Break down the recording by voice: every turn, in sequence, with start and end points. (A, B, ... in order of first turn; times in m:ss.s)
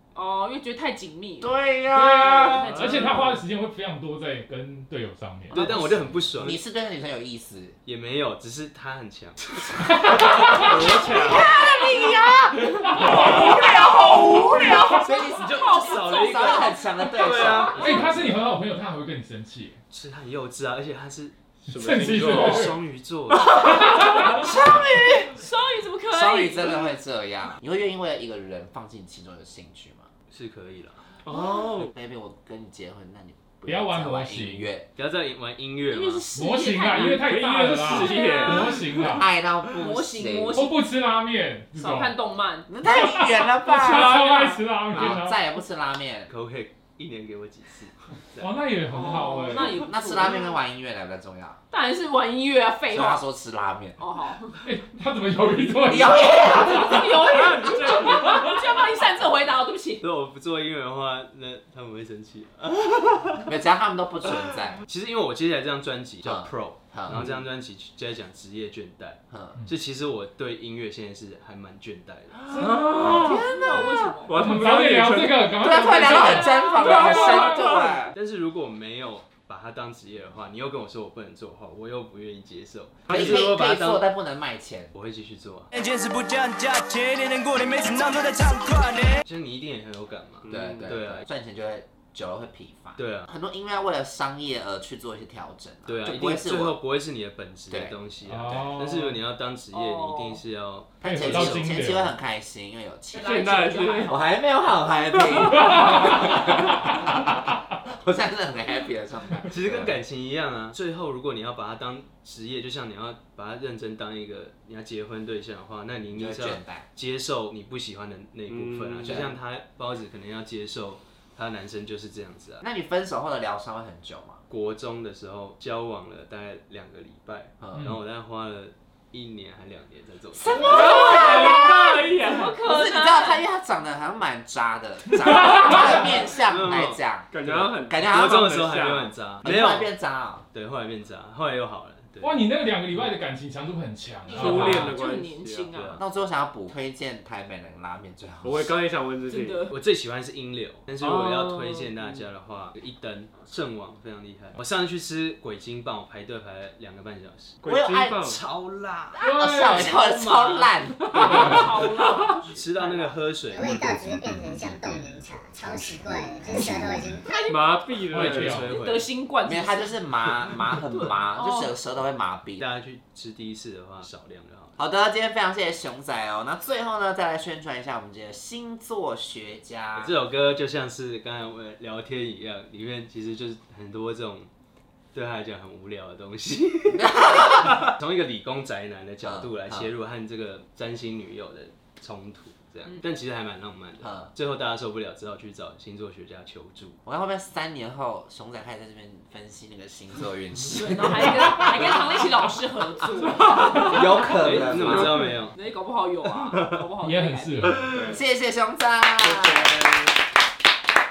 0:00.1-0:01.6 A
0:01.4-0:02.7 B
0:01.9-0:05.7 C
0:02.2-0:03.3 A
0:02.6-0:03.4 D
0:05.5-0:06.6 E
0:05.5-0:07.8 B
0:07.8-0:09.8 E
0:09.8-0:10.6 C
0:10.1-0:17.8 B
0:10.6-0:11.5 D
0:12.9-0:13.5 C
0:13.2-0:18.2 A
0:15.0-0:18.2 E
0:17.8-0:19.8 C
0:19.9-0:21.3 E
0:21.7-0:22.7 D
0:21.7-0:22.7 C
0:22.0-0:23.7 E
0:23.8-0:24.4 C
0:24.0-0:26.9 A
0:24.4-0:25.2 B
0:26.1-0:30.1 B
0:30.3-0:31.0 E
0:31.2-0:31.9 D
0:31.8-0:34.9 B
0:33.7-0:34.7 C
0:35.0-0:36.2 E
0:35.9-0:37.3 A
0:36.3-0:39.3 C
0:37.0-0:38.7 D
0:37.9-0:38.8 A
0:39.0-0:40.6 B
0:39.7-0:40.8 A
0:40.5-0:42.1 C
0:41.7-0:42.7 A
0:42.7-0:46.3 B
0:42.9-0:45.4 C
0:43.9-0:44.5 A
0:46.3-0:48.5 E
0:48.4-0:49.7 C
0:48.9-0:50.5 A
0:49.8-0:51.6 B
0:51.7-0:53.3 A
0:52.9-0:54.0 B
0:54.0-0:54.6 A
0:54.6-0:56.9 C
0:55.8-0:57.1 B
0:56.2-1:00.0 A
0:57.1-0:58.5 D
1:00.0-1:03.5 E
1:03.4-1:04.8 B
1:04.9-1:12.5 E
1:06.2-1:07.3 B
1:09.3-1:09.6 B
1:12.5-1:13.4 C
1:12.6-1:13.4 D
1:12.8-1:14.5 A
1:13.5-1:13.8 B
1:14.2-1:15.9 D
1:14.3-1:18.0 C
1:15.6-1:18.2 B
1:16.0-1:17.6 A
1:18.1-1:24.1 E
1:23.1-1:23.6 D
1:23.1-1:24.9 B
1:24.9-1:25.7 E
1:25.7-1:29.2 F
1:29.2-1:31.3 E
1:30.4-1:31.0 D
1:30.5-1:36.8 B
1:33.0-1:33.3 E
1:35.8-1:41.9 E
1:37.7-1:38.0 B
1:38.2-1:39.2 C
1:39.7-1:40.4 A
1:41.0-1:47.1 B
1:41.0-1:42.1 C
1:43.1-1:44.3 A
1:43.2-1:44.2 D
1:45.6-1:46.1 C
1:47.8-1:49.9 B
1:49.5-2:02.6 E
1:56.1-1:56.9 B
1:58.5-1:59.3 D
1:59.0-1:59.3 B
2:02.6-2:04.4 B
2:04.5-2:11.0 E
2:07.6-2:07.9 B
2:10.3-2:12.0 B
2:10.7-2:13.4 A
2:10.7-2:12.6 D
2:12.6-2:17.3 B
2:15.7-2:16.3 A
2:16.4-2:19.9 E
2:17.3-2:19.2 D
2:17.9-2:18.3 B
2:19.4-2:20.4 B
2:20.5-2:22.4 E
2:22.2-2:24.9 C
2:24.3-2:25.7 D
2:24.3-2:26.0 A
2:25.7-2:26.0 E
2:26.0-2:28.7 B
2:28.4-2:29.6 D
2:29.2-2:29.7 A
2:29.7-2:37.6 E
2:31.0-2:32.2 D
2:37.6-2:38.4 D
2:37.6-2:38.2 B
2:38.2-2:41.6 E
2:39.2-2:39.9 C
2:39.2-2:41.2 B
2:41.1-2:43.2 A
2:41.2-2:41.6 C
2:42.5-2:44.7 E
2:43.5-2:47.4 G
2:45.7-2:46.2 B
2:46.5-2:47.3 E
2:47.2-2:50.4 A
2:47.4-2:49.0 D
2:48.1-2:48.7 C
2:48.2-2:49.0 E
2:49.4-2:52.6 B
2:51.0-2:51.7 A
2:52.6-2:54.8 E
2:54.8-3:00.1 B
2:59.9-3:04.5 E
3:05.1-3:17.0 E
3:07.0-3:07.8 B
3:09.2-3:09.9 B
3:14.0-3:14.3 B
3:17.0-3:22.1 B
3:20.7-3:24.2 A
3:23.2-3:25.2 D
3:23.7-3:25.3 B
3:24.2-3:25.6 E
3:25.5-3:27.9 A
3:26.3-3:26.8 E
3:27.0-3:27.8 C
3:27.9-3:28.2 D
3:28.0-3:29.7 B
3:29.4-3:30.0 D